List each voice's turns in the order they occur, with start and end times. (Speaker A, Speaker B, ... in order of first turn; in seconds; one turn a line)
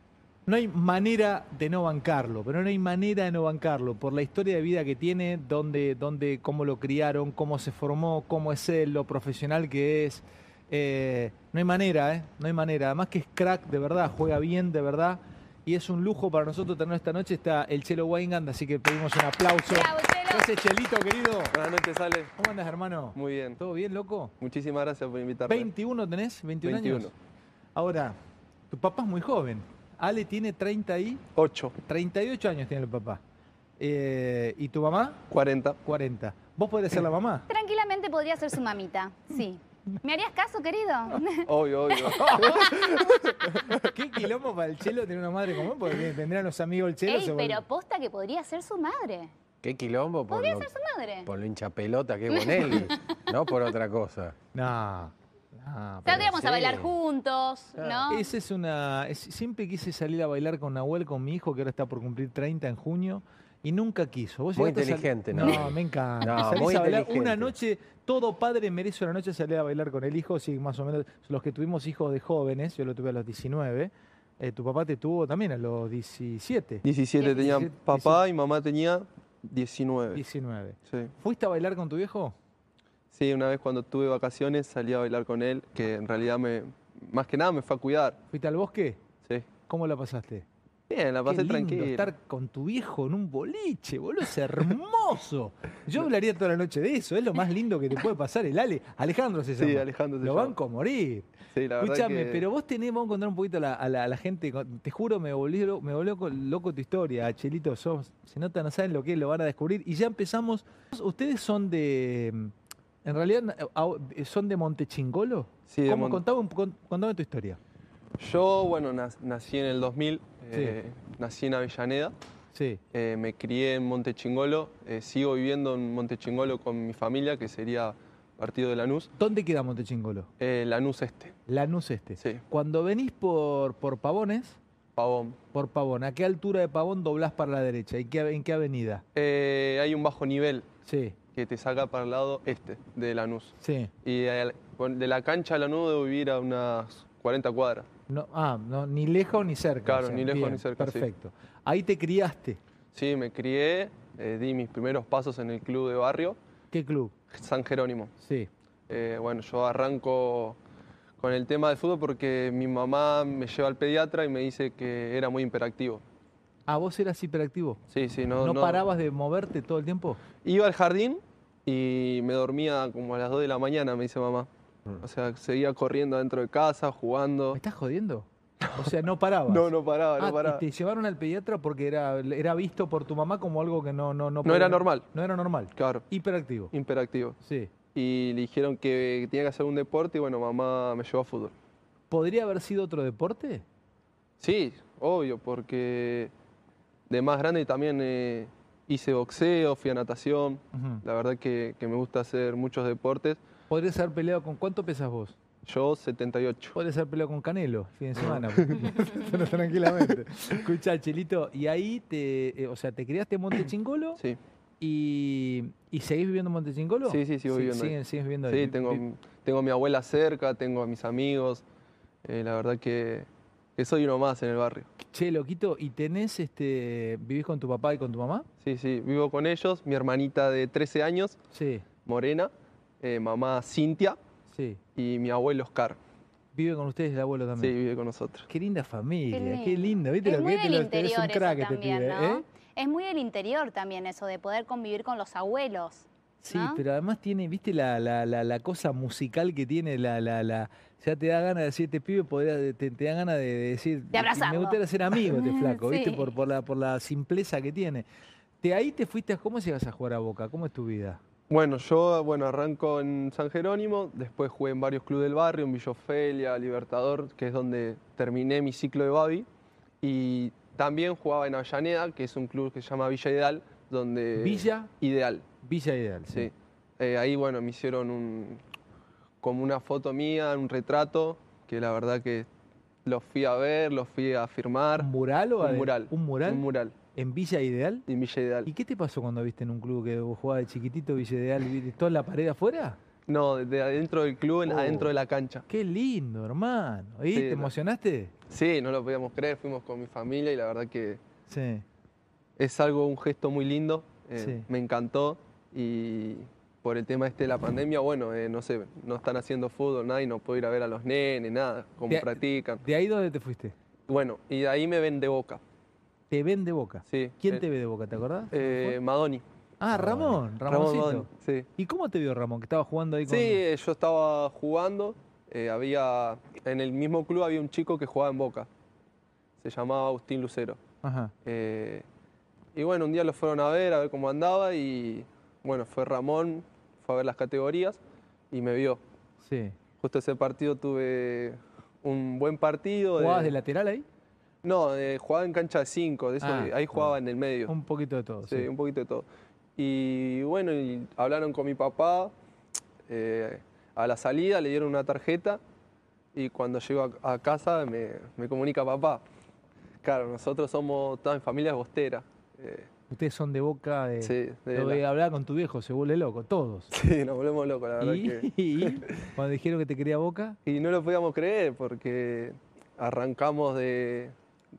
Speaker A: 0.5-21.6
Speaker B: 19.7-20.5
Speaker C: 21.5-22.3
Speaker A: 22.4-24.3
Speaker C: 23.1-23.6
Speaker C: 24.4-25.7
Speaker A: 25.5-27.1
Speaker C: 26.6-27.1
Speaker A: 27.7-28.1
Speaker A: 28.7-31.2
Speaker C: 31.4-31.7
Speaker A: 31.9-33.2
Speaker A: 33.8-35.2
Speaker C: 35.3-35.8
Speaker A: 35.8-37.5
Speaker B: 37.5-43.2
Speaker C: 41.4-43.9
Speaker A: 42.2-42.7
Speaker A: 43.7-47.6
Speaker B: 47.1-49.3
Speaker D: 49.6-50.7
Speaker B: 50.3-51.3
Speaker D: 51.2-54.4
Speaker B: 52.3-53.1
Speaker A: 54.5-56.5
Speaker B: 56.0-58.3
Speaker D: 56.1-56.9
Speaker D: 57.8-58.1
Speaker A: 58.1-78.2
Speaker D: 64.5-67.5
Speaker C: 76.8-80.2
Speaker A: 80.1-82.3
Speaker C: 83.1-88.2
Speaker A: 88.3-89.0
Speaker A: 89.7-90.5
Speaker C: 90.9-92.1
Speaker A: 91.2-101.3
Speaker C: 99.6-100.5
Speaker C: 101.5-102.4
Speaker A: 101.8-112.5
Speaker A: 113.0-117.6
Speaker C: 115.7-116.2
Speaker C: 118.2-122.1
Speaker A: 122.5-122.8
Speaker C: 122.9-129.1
Speaker A: 129.2-130.3
Speaker C: 130.4-131.3
Speaker A: 131.5-134.6
Speaker C: 134.9-135.4
Speaker A: 135.5-139.0
Speaker C: 139.1-140.7
Speaker A: 140.8-141.2
Speaker C: 141.3-147.9
Speaker A: 143.6-143.9
Speaker A: 148.1-152.6
Speaker C: 149.8-151.1
Speaker C: 152.9-156.4
Speaker A: 156.7-157.1
Speaker C: 157.3-158.1
Speaker A: 158.2-158.5
Speaker C: 158.9-160.6
Speaker C: 161.2-166.0
Speaker A: 166.7-167.8
Speaker C: 167.9-168.8
Speaker A: 168.4-170.2
Speaker C: 170.4-174.5
Speaker C: 175.0-177.6
Speaker A: 177.5-186.7
Speaker C: 178.6-178.9
Speaker C: 179.5-180.6
Speaker C: 184.4-185.1
Speaker C: 185.8-186.1
Speaker C: 186.7-187.4
Speaker A: 187.4-187.7
Speaker C: 187.9-191.5
Speaker A: 192.1-193.6
Speaker C: 194.4-196.3
Speaker C: 197.1-203.4
Speaker A: 200.7-201.0
Speaker A: 203.7-205.3
Speaker C: 205.7-206.8
Speaker A: 206.7-214.2
Speaker C: 208.2-209.2
Speaker A: 214.8-219.0
Speaker C: 217.1-217.9
Speaker C: 218.5-221.6
Speaker C: 222.2-224.9
Speaker A: 225.0-228.5
Speaker C: 228.6-231.4
Speaker A: 231.5-231.8
Speaker C: 232.1-234.2
Speaker A: 234.5-234.8
Speaker C: 234.9-236.0
Speaker A: 236.5-237.7
Speaker C: 237.6-238.5
Speaker A: 238.5-242.4
Speaker B: 239.3-246.8
Speaker A: 246.4-258.0
Speaker B: 254.1-256.3
Speaker A: 258.6-261.2
Speaker C: 261.5-269.5
Speaker C: 270.0-275.4
Speaker A: 274.4-274.9
Speaker A: 275.6-276.5
Speaker C: 276.3-278.6
Speaker C: 279.4-282.5
Speaker C: 283.0-285.1
Speaker A: 285.0-286.6
Speaker C: 285.6-286.9
Speaker A: 287.1-288.1
Speaker C: 288.1-288.7
Speaker A: 288.6-293.0
Speaker C: 293.3-295.6
Speaker A: 294.7-295.1
Speaker A: 295.7-298.3
Speaker C: 297.3-297.7
Speaker C: 298.5-301.2
Speaker A: 301.5-301.8
Speaker C: 302.6-312.8
Speaker A: 304.4-304.6
Speaker A: 312.1-313.7
Speaker C: 314.1-315.6
Speaker A: 316.3-319.0
Speaker C: 317.1-317.6
Speaker C: 318.5-319.4
Speaker A: 319.8-323.6
Speaker D: 319.9-320.4
Speaker C: 320.6-321.7
Speaker C: 323.3-328.7
Speaker C: 329.6-330.8
Speaker A: 331.0-331.3
Speaker C: 331.4-332.0
Speaker C: 332.7-338.0
Speaker C: 338.5-339.0
Speaker A: 339.4-339.8
Speaker C: 340.0-343.5
Speaker A: 343.2-344.1
Speaker C: 344.6-347.7
Speaker A: 346.4-347.1
Speaker A: 347.7-348.7
Speaker C: 348.5-349.2
Speaker C: 349.8-352.3
Speaker C: 353.1-355.6
Speaker C: 356.3-359.2
Speaker C: 360.0-362.9
Speaker A: 363.1-366.9
Speaker C: 364.2-365.0
Speaker C: 366.9-369.3
Speaker A: 368.0-370.6
Speaker C: 370.6-374.3